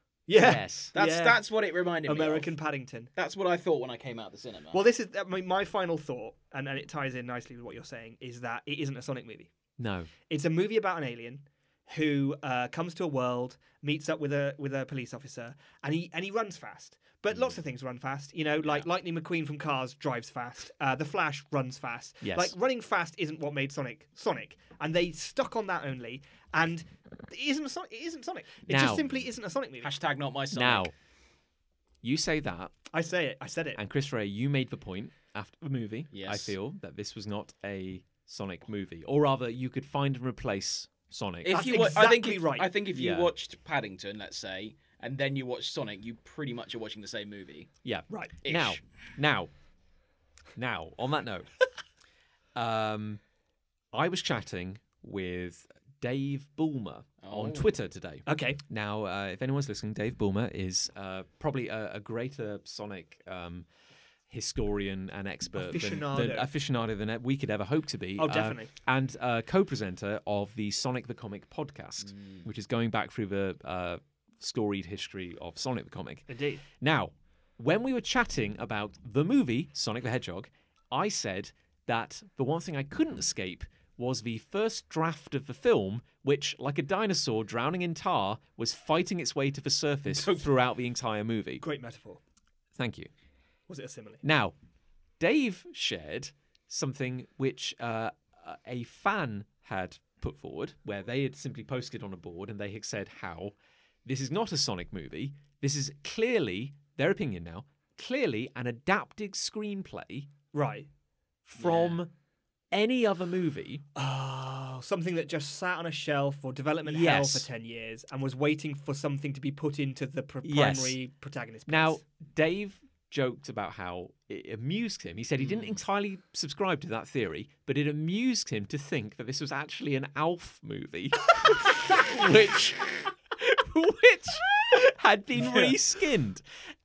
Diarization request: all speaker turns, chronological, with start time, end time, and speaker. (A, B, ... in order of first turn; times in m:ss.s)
0:00.3-0:01.4 A
0:00.4-0:00.9 B
0:00.9-0:02.5 C
0:02.1-0:03.1 A
0:03.2-0:04.8 C
0:04.7-0:09.5 A
0:09.8-0:10.1 B
0:10.3-0:29.9 A
0:22.2-0:22.5 B
0:28.7-0:29.1 B
0:29.8-0:30.9 C
0:30.5-0:30.9 B
0:32.0-0:32.7 B
0:32.9-0:33.8 A
0:33.8-0:41.5 B
0:36.1-0:36.5 C
0:41.4-0:47.7 C
0:41.5-0:42.7 A
0:42.9-0:43.3 B
0:47.8-0:49.5 B
0:48.1-0:48.3 A
0:48.4-0:48.8 C
0:50.6-0:51.5 B
0:52.5-0:53.2 B
0:53.9-1:03.6 B
0:57.2-0:57.7 C
0:58.2-0:58.6 A
1:04.3-1:31.6 B
1:05.6-1:06.5 A
1:08.2-1:08.7 A
1:12.1-1:12.4 C
1:16.3-1:16.6 A
1:30.1-1:30.5 C
1:31.6-1:32.2 A
1:32.8-1:33.1 B
1:33.7-1:34.2 A
1:34.2-1:34.5 B
1:35.2-1:50.3 B
1:50.5-1:50.9 A
1:51.4-1:52.1 B
1:51.6-1:52.0 C
1:52.7-1:53.8 B
1:54.0-2:02.0 A
1:56.8-1:57.5 B
2:00.4-2:01.0 B
2:01.7-2:16.4 B
2:05.4-2:05.8 C